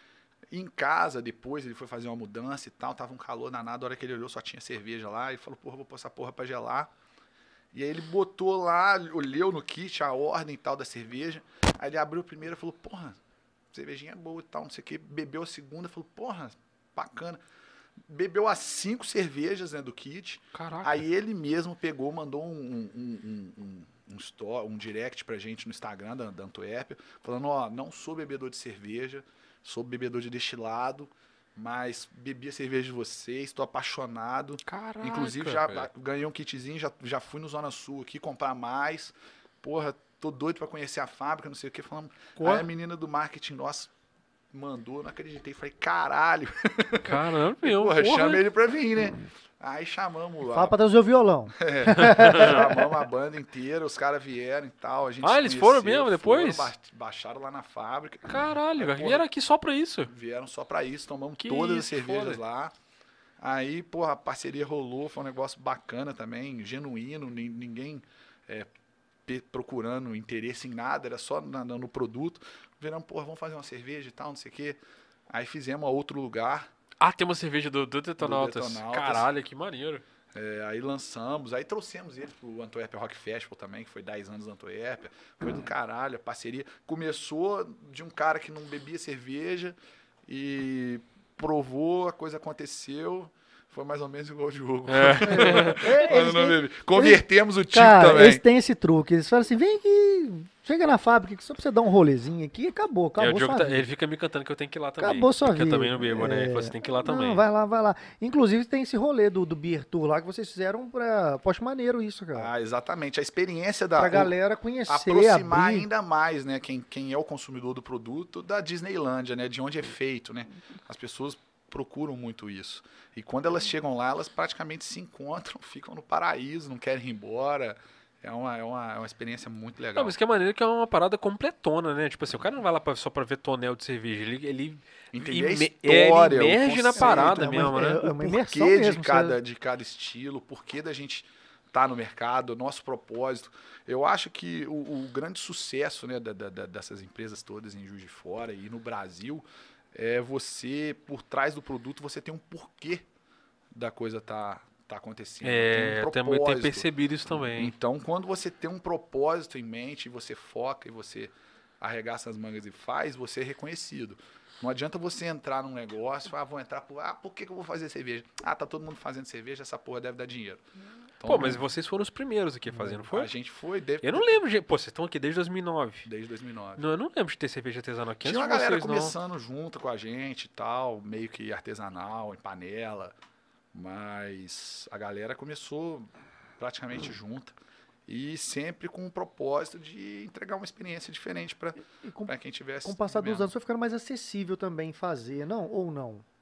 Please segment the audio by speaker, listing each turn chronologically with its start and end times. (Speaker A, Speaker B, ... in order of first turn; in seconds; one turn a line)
Speaker A: 0.5-6.9
Speaker A: 7.7-13.2
Speaker A: 13.7-17.4
Speaker A: 18.0-43.9
Speaker B: 20.5-21.0
Speaker B: 34.7-35.9
Speaker B: 42.4-42.7
Speaker A: 44.5-50.8
Speaker B: 47.0-48.5
Speaker C: 50.5-52.7
Speaker A: 51.6-59.2
Speaker B: 52.0-52.6
Speaker B: 55.2-56.7
Speaker B: 58.3-60.1
Speaker A: 60.1-62.8
Speaker B: 61.4-62.4
Speaker A: 63.4-68.7
Speaker A: 69.3-74.8
Speaker A: 75.3-76.7
Speaker B: 77.0-80.0
Speaker A: 78.2-79.3
Speaker A: 80.3-98.4
Speaker B: 94.9-95.9
Speaker C: 95.2-103.9
Speaker B: 103.2-107.4
Speaker C: 105.0-112.5
Speaker A: 112.3-114.3
Speaker C: 114.0-115.9
Speaker A: 114.9-130.2
Speaker B: 130.0-138.0
Speaker A: 135.1-153.1
Speaker C: 137.0-139.4
Speaker A: 153.7-170.6
Speaker B: 155.4-157.7
Speaker A: 171.2-171.6
Speaker B: 171.2-173.3
Speaker A: 173.0-174.3
Speaker B: 174.0-176.1
Speaker A: 176.1-176.8
Speaker B: 176.8-179.2
Speaker A: 178.2-183.2
Speaker A: 183.7-193.5
Speaker C: 192.0-196.2